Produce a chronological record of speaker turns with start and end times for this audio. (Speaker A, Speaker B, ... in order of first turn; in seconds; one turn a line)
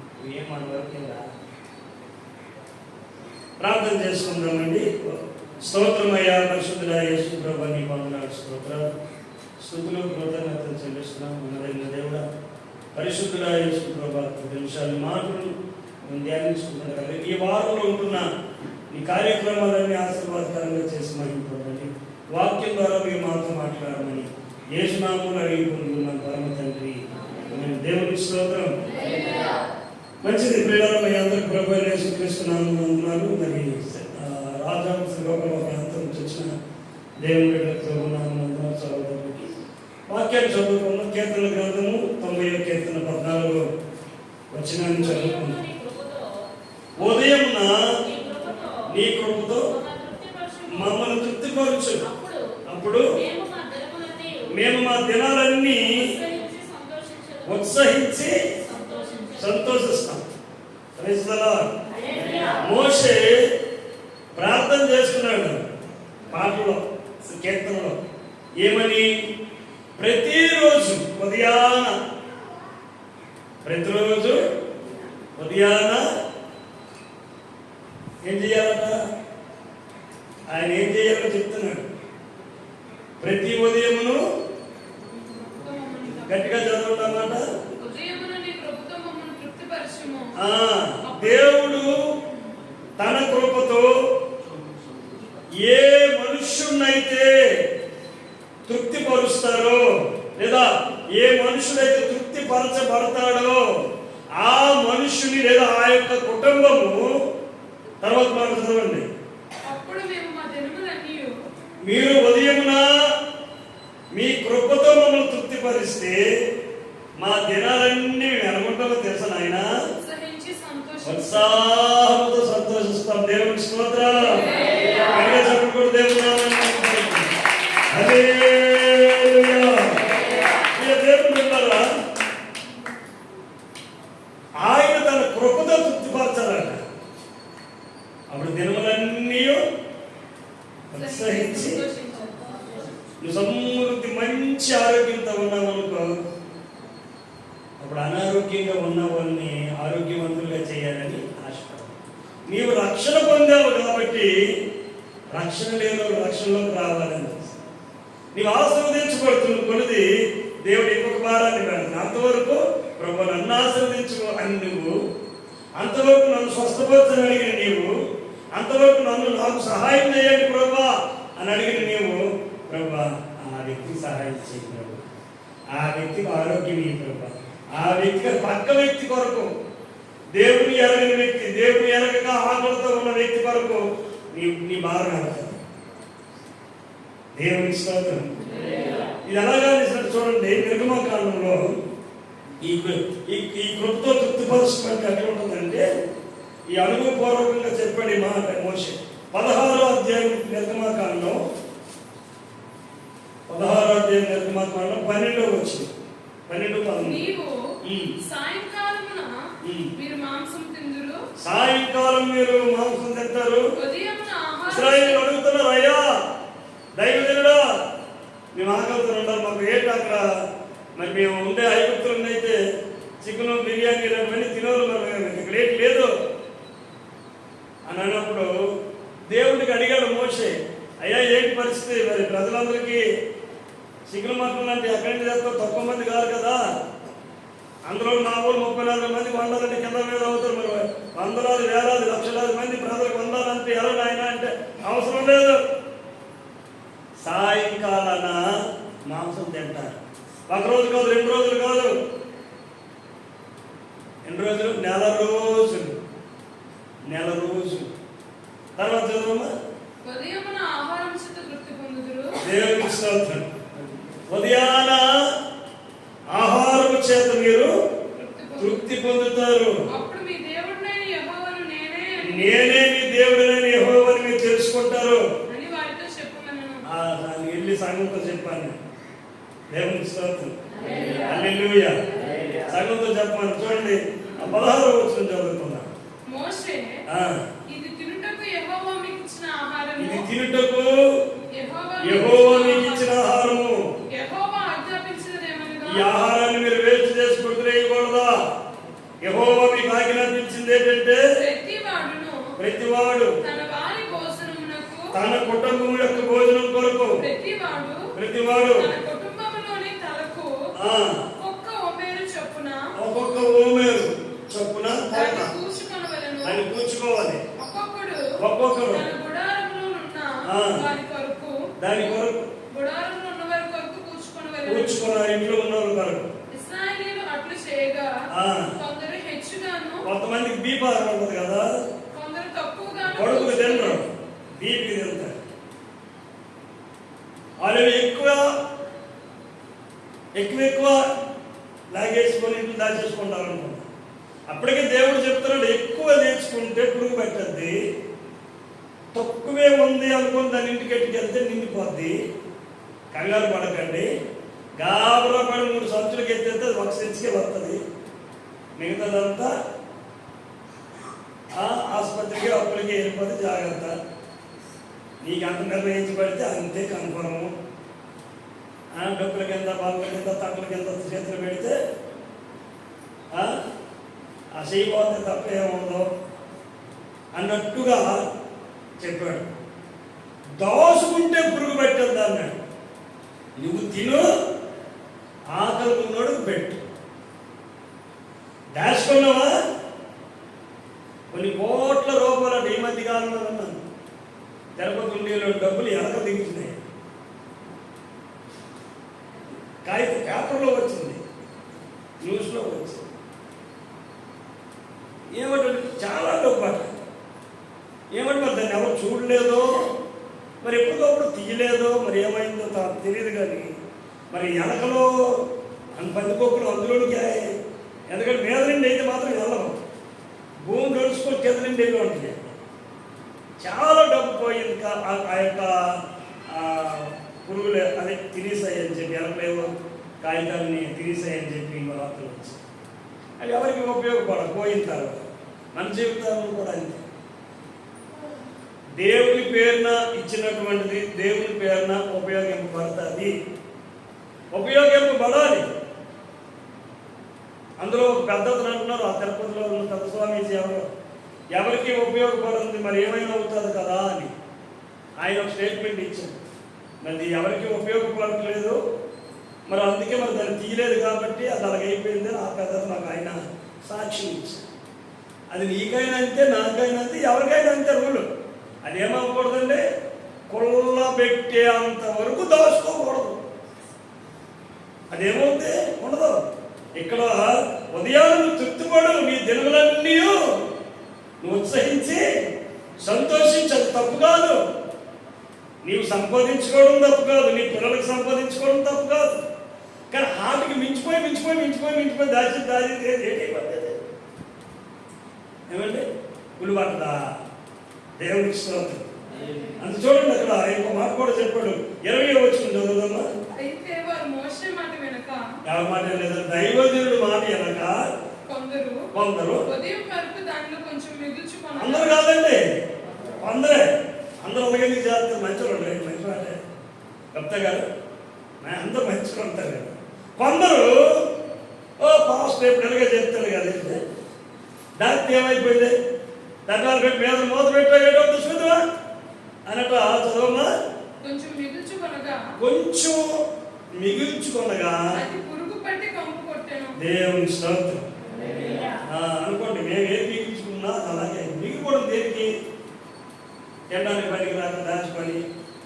Speaker A: 0.2-1.3
Speaker A: 3.6-8.9
Speaker A: 9.6-12.2
Speaker A: 12.9-18.2
Speaker A: 18.9-28.8
Speaker A: 30.2-36.5
Speaker A: 37.2-39.5
Speaker A: 40.1-43.6
Speaker A: 44.5-45.6
Speaker B: 44.9-46.3
Speaker A: 47.0-48.0
Speaker B: 47.0-47.3
Speaker B: 48.0-48.9
Speaker A: 48.9-49.7
Speaker B: 49.7-50.9
Speaker A: 50.7-52.0
Speaker B: 52.0-52.5
Speaker A: 52.7-53.1
Speaker B: 53.1-54.5
Speaker A: 54.5-56.1
Speaker B: 55.9-57.8
Speaker A: 57.5-58.4
Speaker B: 58.6-59.6
Speaker A: 59.4-60.2
Speaker A: 61.0-61.7
Speaker B: 61.9-62.6
Speaker A: 62.6-63.5
Speaker A: 64.3-65.6
Speaker A: 66.3-68.0
Speaker A: 68.6-69.1
Speaker A: 70.0-72.0
Speaker A: 73.6-74.4
Speaker A: 75.4-76.0
Speaker A: 78.2-79.0
Speaker A: 80.5-81.9
Speaker A: 83.2-84.2
Speaker C: 85.1-86.4
Speaker A: 86.3-87.4
Speaker C: 87.7-90.3
Speaker A: 90.4-92.1
Speaker C: 91.1-91.8
Speaker A: 93.0-94.0
Speaker A: 95.6-97.5
Speaker A: 98.7-103.7
Speaker A: 104.4-107.1
Speaker A: 108.0-109.1
Speaker C: 109.7-111.3
Speaker A: 111.8-113.0
Speaker A: 114.1-116.2
Speaker A: 117.2-119.7
Speaker C: 120.0-121.6
Speaker A: 121.0-124.5
Speaker C: 124.5-124.8
Speaker A: 125.0-127.3
Speaker A: 127.9-130.1
Speaker A: 130.7-131.9
Speaker A: 134.6-136.8
Speaker A: 138.3-139.6
Speaker A: 140.9-141.8
Speaker C: 140.9-142.8
Speaker A: 143.2-146.1
Speaker A: 147.8-151.9
Speaker A: 152.5-154.3
Speaker A: 155.3-157.6
Speaker A: 158.3-160.1
Speaker A: 160.6-165.0
Speaker A: 165.8-167.9
Speaker A: 168.5-175.0
Speaker A: 175.7-179.5
Speaker A: 180.3-185.6
Speaker A: 187.3-188.3
Speaker A: 189.2-191.7
Speaker A: 192.6-195.8
Speaker A: 196.7-201.4
Speaker A: 203.5-205.9
Speaker A: 206.5-207.2
Speaker C: 207.0-207.6
Speaker A: 207.8-208.1
Speaker C: 208.2-209.3
Speaker A: 209.6-209.9
Speaker C: 209.9-211.2
Speaker A: 211.4-213.7
Speaker C: 213.8-215.2
Speaker A: 214.7-216.1
Speaker A: 217.0-217.6
Speaker A: 218.5-220.4
Speaker A: 221.0-222.6
Speaker A: 223.2-226.1
Speaker A: 227.9-228.5
Speaker A: 229.3-233.0
Speaker A: 234.1-236.6
Speaker A: 237.8-245.6
Speaker A: 247.2-248.4
Speaker A: 249.1-250.0
Speaker A: 250.5-251.9
Speaker A: 254.2-255.9
Speaker A: 257.1-257.9
Speaker A: 258.8-259.5
Speaker C: 260.0-262.4
Speaker A: 262.4-263.5
Speaker A: 264.3-265.2
Speaker A: 266.3-267.7
Speaker C: 268.2-268.9
Speaker A: 268.6-269.8
Speaker C: 269.9-272.8
Speaker A: 272.2-275.2
Speaker C: 275.5-276.8
Speaker A: 276.9-278.8
Speaker A: 279.7-282.0
Speaker A: 282.6-285.9
Speaker C: 286.3-287.0
Speaker A: 287.1-287.4
Speaker C: 287.7-290.3
Speaker A: 290.0-291.2
Speaker C: 291.5-293.1
Speaker A: 292.0-293.8
Speaker C: 294.1-296.0
Speaker A: 295.9-298.4
Speaker A: 299.2-301.2
Speaker C: 301.4-302.5
Speaker A: 302.6-303.3
Speaker C: 303.4-305.1
Speaker A: 305.1-307.2
Speaker C: 307.2-308.1
Speaker A: 308.1-308.9
Speaker C: 308.7-310.6
Speaker A: 310.7-311.2
Speaker C: 311.4-312.9
Speaker A: 312.9-315.5
Speaker C: 315.1-316.6
Speaker A: 316.4-317.4
Speaker C: 317.6-318.3
Speaker A: 318.4-319.0
Speaker C: 318.9-321.7
Speaker A: 320.4-320.8
Speaker A: 321.8-322.5
Speaker C: 322.7-325.1
Speaker A: 324.6-326.3
Speaker C: 326.5-328.2
Speaker A: 328.3-328.7
Speaker C: 328.8-330.1
Speaker A: 330.0-331.7
Speaker C: 332.1-334.0
Speaker A: 333.2-335.4
Speaker A: 337.6-338.5
Speaker A: 340.4-341.0
Speaker A: 341.9-343.8
Speaker A: 344.5-347.8
Speaker A: 349.1-352.1
Speaker A: 353.1-354.1
Speaker A: 354.8-357.8
Speaker A: 358.8-359.5
Speaker A: 361.6-363.9
Speaker A: 365.2-367.5
Speaker A: 368.9-371.8
Speaker A: 373.3-373.6
Speaker A: 374.5-376.1
Speaker A: 377.4-378.2
Speaker A: 379.0-379.4
Speaker A: 380.6-382.5
Speaker A: 383.6-384.3
Speaker A: 385.5-386.8
Speaker A: 388.8-389.5
Speaker A: 391.3-393.8
Speaker A: 394.8-396.8
Speaker A: 399.8-401.2
Speaker A: 402.2-403.0
Speaker A: 405.4-406.9
Speaker A: 408.1-409.8
Speaker A: 410.6-413.7
Speaker A: 414.3-415.3
Speaker A: 415.9-417.5
Speaker A: 418.1-419.8
Speaker A: 420.6-422.5
Speaker A: 423.6-425.9
Speaker A: 426.5-432.6
Speaker A: 433.4-435.2
Speaker A: 435.7-437.0
Speaker A: 439.0-443.3
Speaker A: 444.5-445.6
Speaker A: 447.8-450.9
Speaker A: 451.5-454.3
Speaker A: 455.2-456.3
Speaker A: 457.0-458.8
Speaker A: 459.7-464.6
Speaker A: 465.5-468.2
Speaker A: 468.8-469.8
Speaker A: 470.5-473.4
Speaker A: 475.1-476.4
Speaker A: 476.9-480.4
Speaker A: 481.4-482.2
Speaker A: 483.0-484.6
Speaker A: 485.8-489.4
Speaker A: 490.1-494.0
Speaker A: 495.7-496.0
Speaker A: 496.6-497.2
Speaker A: 498.2-499.1
Speaker A: 499.8-503.3
Speaker C: 503.6-505.4
Speaker A: 505.6-508.1
Speaker C: 508.5-509.1
Speaker A: 509.1-509.6
Speaker C: 509.7-512.2
Speaker A: 511.8-512.6
Speaker A: 513.4-513.9
Speaker A: 514.4-516.6
Speaker A: 517.3-517.8
Speaker A: 518.6-521.2
Speaker A: 522.0-524.0
Speaker A: 525.0-525.9
Speaker A: 526.7-528.8
Speaker A: 529.7-530.7
Speaker C: 531.2-532.5
Speaker A: 532.6-533.3
Speaker A: 534.0-535.0
Speaker C: 535.1-537.0
Speaker A: 537.0-538.0
Speaker A: 539.0-542.5
Speaker A: 543.9-545.4